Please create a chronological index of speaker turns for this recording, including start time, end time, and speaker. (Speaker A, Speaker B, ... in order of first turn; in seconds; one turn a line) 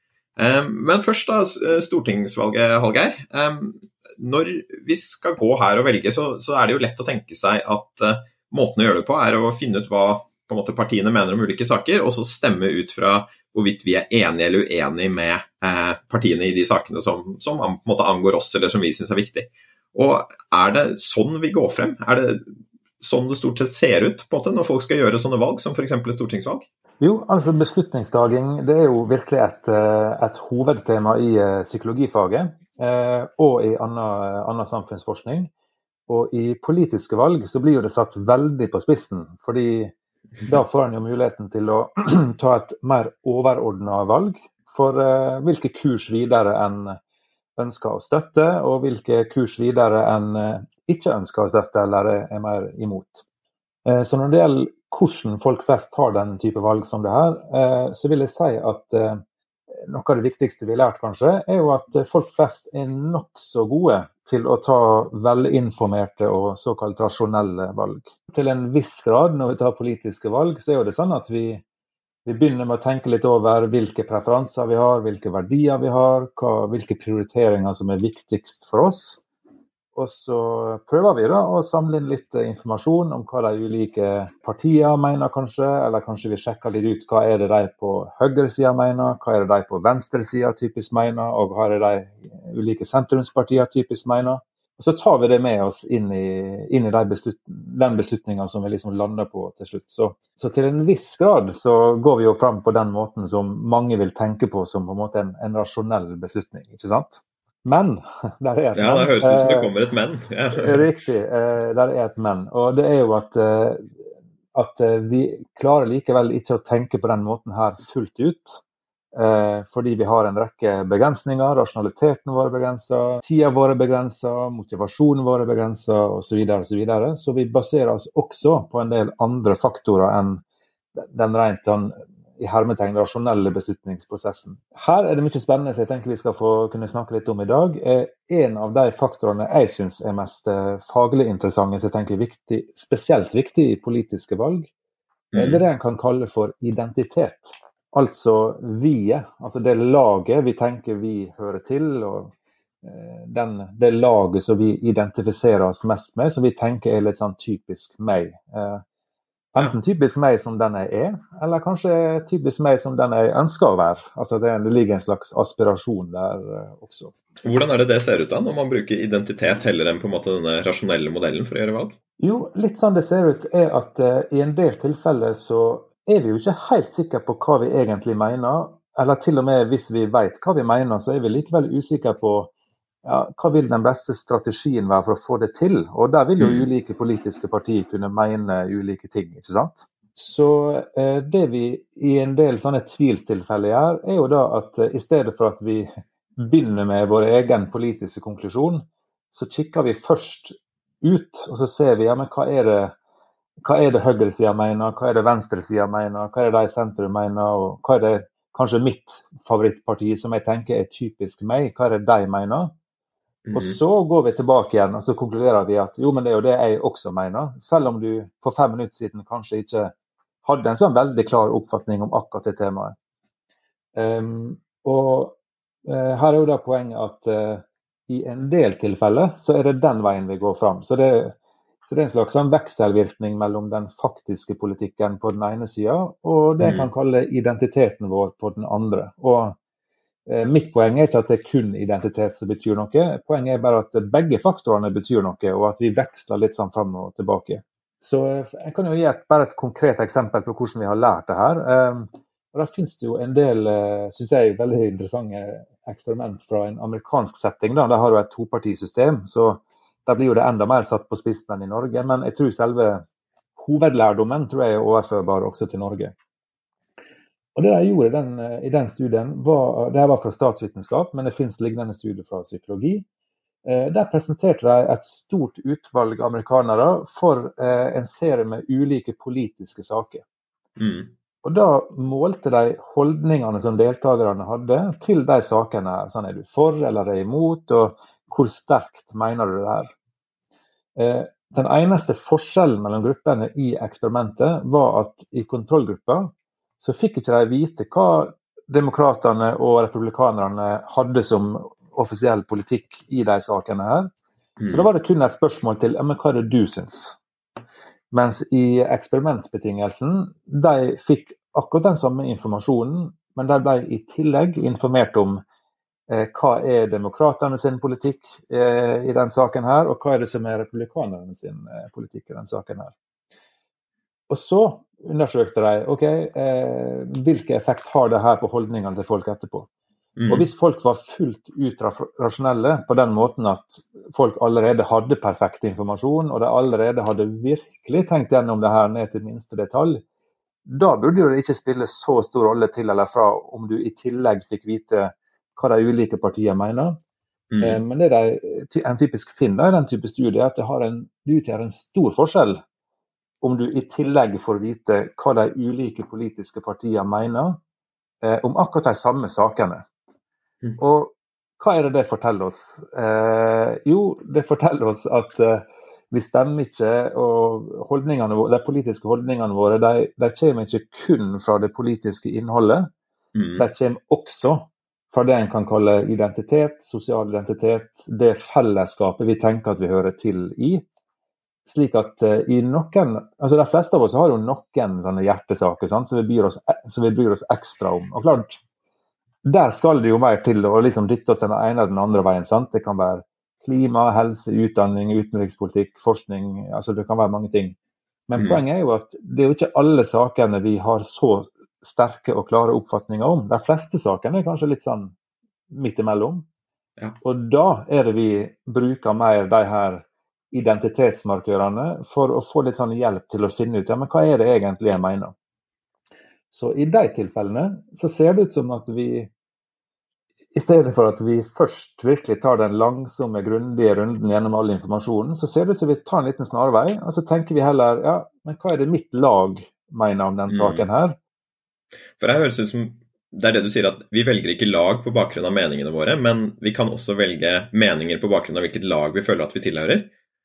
Speaker A: 0.4-26.7
Speaker B: 27.0-35.5
Speaker B: 36.1-39.9
Speaker B: 40.4-47.0
Speaker B: 47.6-53.2
Speaker B: 53.9-59.2
Speaker B: 59.9-71.6
Speaker B: 72.2-79.2
Speaker B: 79.9-109.7
Speaker A: 108.8-110.8
Speaker B: 110.5-118.6
Speaker B: 119.2-130.4
Speaker B: 131.0-144.7
Speaker A: 145.3-145.6
Speaker B: 145.3-152.3
Speaker B: 152.8-158.8
Speaker B: 159.5-167.1
Speaker A: 167.4-171.9
Speaker B: 172.2-182.5
Speaker B: 183.0-202.9
Speaker A: 186.4-186.7
Speaker B: 203.6-212.7
Speaker A: 213.4-213.8
Speaker B: 213.5-219.9
Speaker B: 220.4-222.9
Speaker B: 223.9-231.4
Speaker B: 231.9-239.6
Speaker A: 236.6-236.9
Speaker B: 240.3-263.0
Speaker B: 263.6-266.1
Speaker B: 267.6-273.1
Speaker B: 273.6-280.2
Speaker A: 280.8-281.1
Speaker B: 281.4-289.9
Speaker B: 290.9-304.1
Speaker A: 304.6-304.9
Speaker B: 304.7-307.1
Speaker B: 308.1-315.4
Speaker B: 316.1-322.9
Speaker B: 324.3-329.7
Speaker A: 330.1-330.4
Speaker B: 330.3-340.0
Speaker B: 340.6-347.0
Speaker A: 347.5-347.8
Speaker B: 347.6-352.6
Speaker B: 353.4-357.6
Speaker B: 358.2-359.8
Speaker B: 360.8-372.9
Speaker A: 373.4-373.6
Speaker B: 373.6-380.8
Speaker B: 381.7-388.6
Speaker B: 389.4-397.8
Speaker B: 398.3-405.1
Speaker A: 398.4-398.6
Speaker B: 405.7-406.5
Speaker B: 407.2-415.3
Speaker B: 416.5-419.3
Speaker B: 420.5-431.2
Speaker A: 430.5-430.8
Speaker A: 432.2-440.1